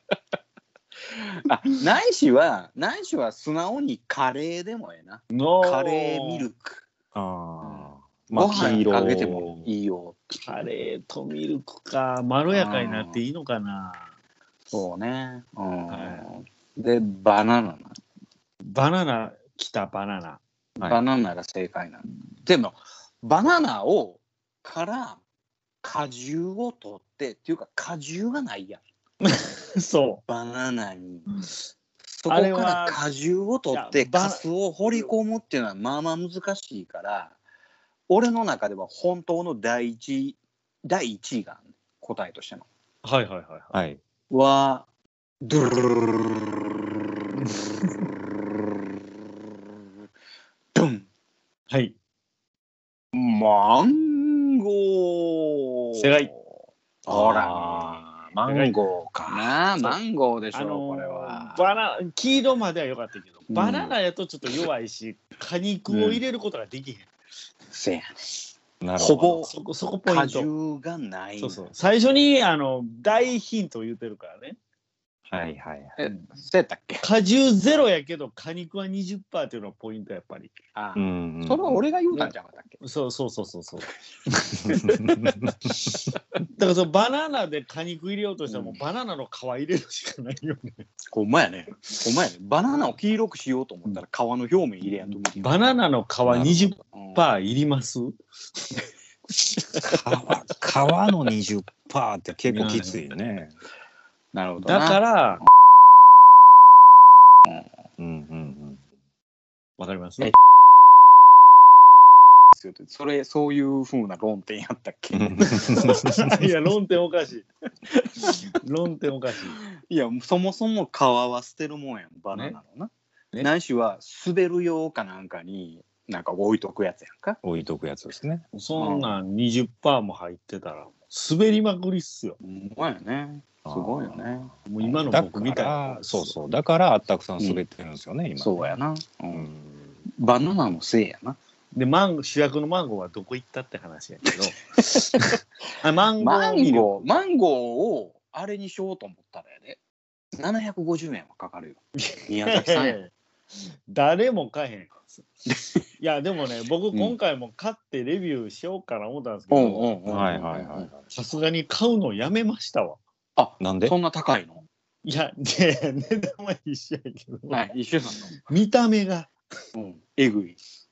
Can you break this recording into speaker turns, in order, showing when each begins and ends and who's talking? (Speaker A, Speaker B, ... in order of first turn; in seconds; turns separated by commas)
Speaker A: 1.2-6.9, Speaker B: 5.3-6.5, Speaker C: 7.1-9.7, Speaker A: 7.6-10.5, Speaker B: 8.5-8.8, Speaker B: 10.4-14.1, Speaker A: 12.5-13.2, Speaker A: 14.7-18.0, Speaker B: 15.9-16.3, Speaker B: 18.6-20.4, Speaker A: 20.9-25.2, Speaker A: 25.8-28.8, Speaker B: 29.2-30.2, Speaker A: 30.3-31.3, Speaker A: 32.1-37.4, Speaker B: 32.3-33.0, Speaker B: 33.7-34.4, Speaker A: 38.1-42.7, Speaker B: 43.0-43.8, Speaker C: 43.7-44.0, Speaker A: 44.3-44.9, Speaker A: 45.4-46.6, Speaker A: 50.7-51.1, Speaker B: 51.7-52.0, Speaker A: 53.1-56.5, Speaker B: 56.0-56.3, Speaker C: 57.1-59.5, Speaker A: 57.1-58.6, Speaker A: 59.2-61.8, Speaker B: 60.5-67.1, Speaker A: 63.5-63.9, Speaker A: 65.9-66.2, Speaker A: 67.7-68.2, Speaker C: 68.8-69.5, Speaker A: 69.0-69.5, Speaker B: 69.5-70.5, Speaker A: 70.1-71.7, Speaker B: 71.4-74.6, Speaker C: 75.3-76.0, Speaker A: 76.0-77.0, Speaker B: 77.0-80.5, Speaker A: 80.8-82.8, Speaker C: 81.0-81.8, Speaker B: 82.1-84.9, Speaker C: 84.9-85.7, Speaker B: 86.5-90.9, Speaker A: 88.5-88.8, Speaker A: 91.1-95.8, Speaker B: 95.4-98.2, Speaker C: 96.3-96.7, Speaker A: 96.9-97.3, Speaker C: 99.8-103.6, Speaker B: 102.5-103.0, Speaker A: 104.3-105.0, Speaker B: 104.6-105.4, Speaker C: 108.0-108.8, Speaker B: 109.8-110.3, Speaker A: 112.5-115.8, Speaker C: 115.1-116.4, Speaker B: 115.4-117.5, Speaker A: 118.0-118.5, Speaker B: 118.3-119.6, Speaker A: 119.6-127.4, Speaker C: 127.4-128.5, Speaker B: 128.5-132.4, Speaker A: 128.8-129.2, Speaker A: 132.4-134.6, Speaker C: 133.7-134.5, Speaker B: 134.7-136.3, Speaker C: 135.0-138.8, Speaker A: 138.4-139.5, Speaker C: 139.3-140.0, Speaker A: 140.1-141.4, Speaker B: 141.7-147.1, Speaker A: 144.9-145.2, Speaker A: 146.2-149.8, Speaker A: 150.4-153.0, Speaker B: 152.0-153.1, Speaker B: 153.9-155.2, Speaker A: 155.5-155.8, Speaker B: 156.0-159.9, Speaker A: 159.5-160.9, Speaker C: 160.1-161.1, Speaker B: 161.1-163.0, Speaker A: 163.4-164.6, Speaker C: 163.6-163.9, Speaker B: 165.1-167.6, Speaker A: 167.5-168.3, Speaker B: 168.3-169.3, Speaker A: 169.8-170.6